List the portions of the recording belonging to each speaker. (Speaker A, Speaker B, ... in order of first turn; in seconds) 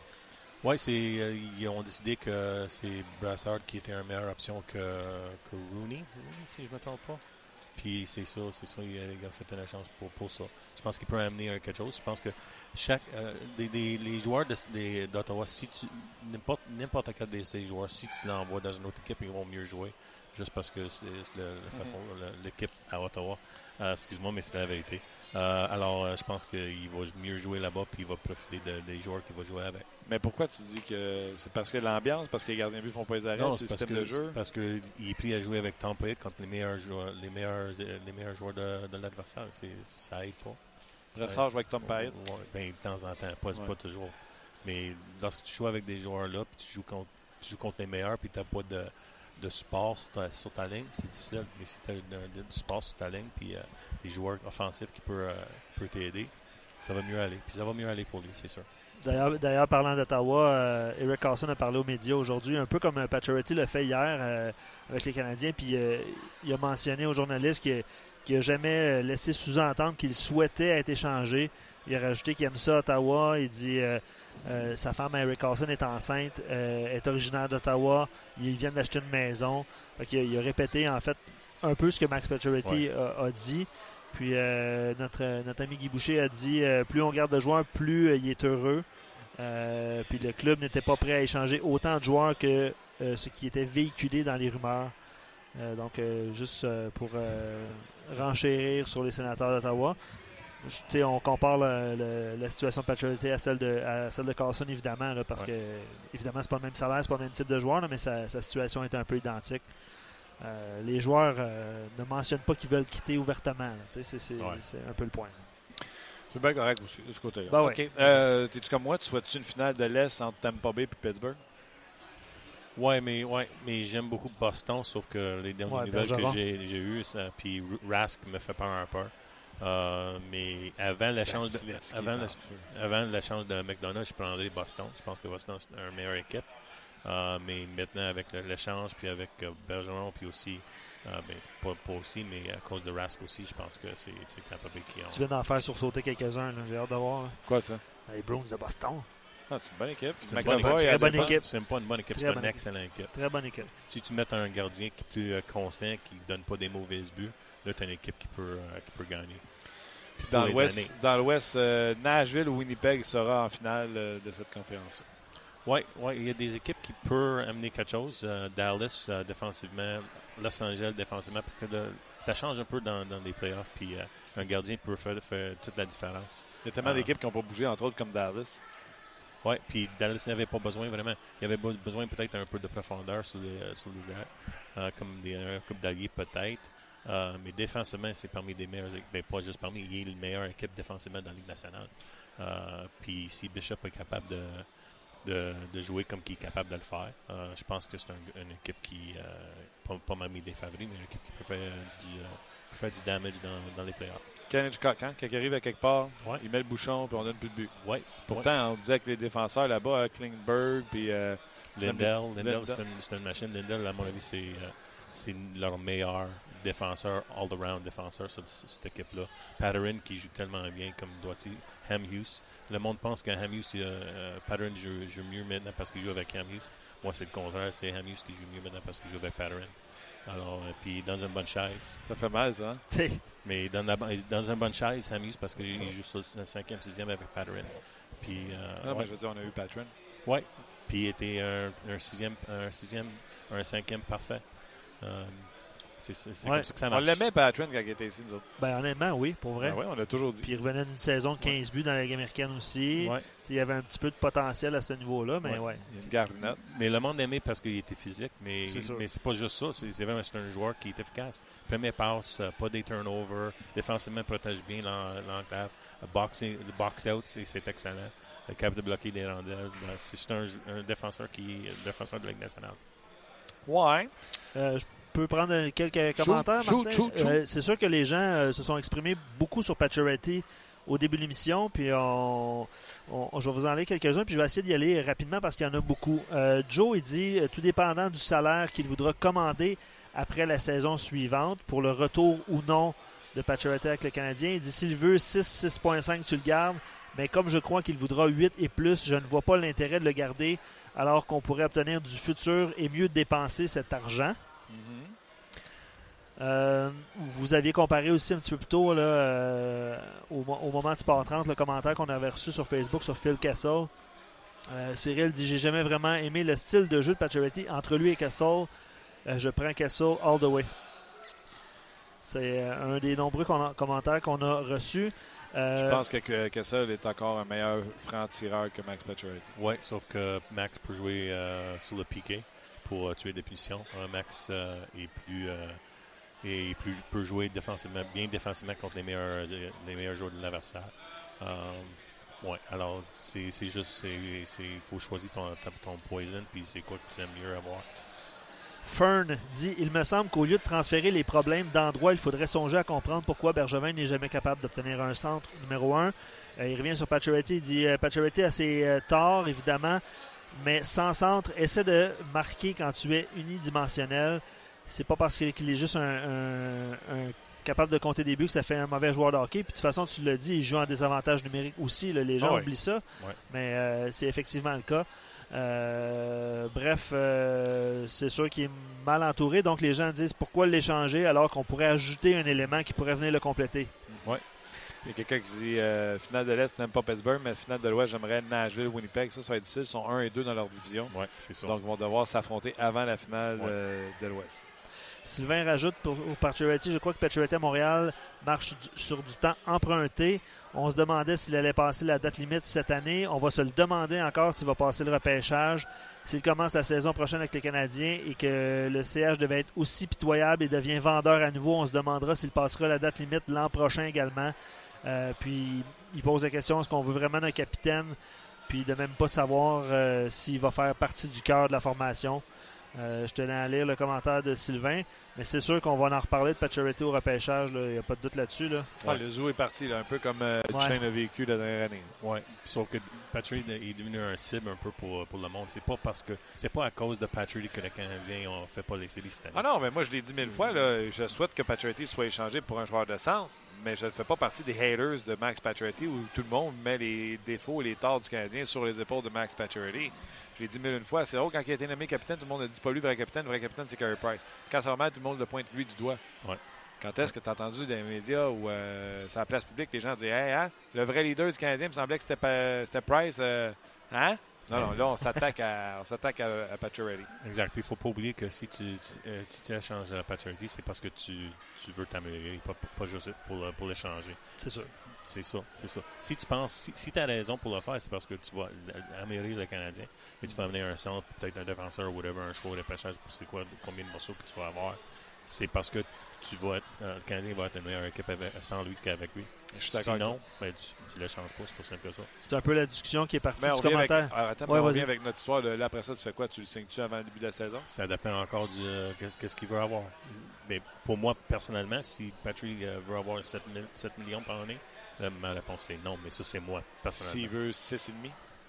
Speaker A: 0.6-29.9, 33.3-58.7, 114.4-114.9, 122.7-145.2, 150.2-161.0, 165.6-177.1, 179.4-204.3, 206.2-206.5, 207.1-208.5, 211.7-232.0, 233.4-239.6, 240.2-247.3, 253.0-253.3, 255.5-272.8, 329.5-348.0, 372.4-373.4, 391.1-391.8, 432.2-439.7, 440.5-440.8, 464.7-465.0, 467.3-492.3, 497.9-507.6
Speaker B: 30.0-34.4, 41.1-42.1, 116.3-121.4, 131.2-132.7, 147.4-147.8, 149.5-151.4, 160.2-165.1, 176.6-178.6, 204.5-212.8, 232.0-232.8, 238.8-239.9, 246.9-248.5, 249.6-251.6, 255.4-256.6, 273.6-274.1, 276.1-277.4, 304.7-305.1, 325.7-329.5, 384.1-394.7, 429.0-432.1, 439.5-467.3, 489.7-490.4, 493.6-497.9, 507.1-508.4
Speaker C: 59.0-115.5, 117.5-118.0, 125.7-126.4, 145.1-149.5, 150.4-153.7, 232.9-233.2, 246.4-246.7, 248.6-255.9, 258.6-259.1, 274.5-304.4, 306.4-313.9, 314.7-318.7, 319.2-320.7, 322.2-326.0, 348.8-384.1, 395.2-429.0, 430.7-431.0, 474.6-474.9, 492.4-495.1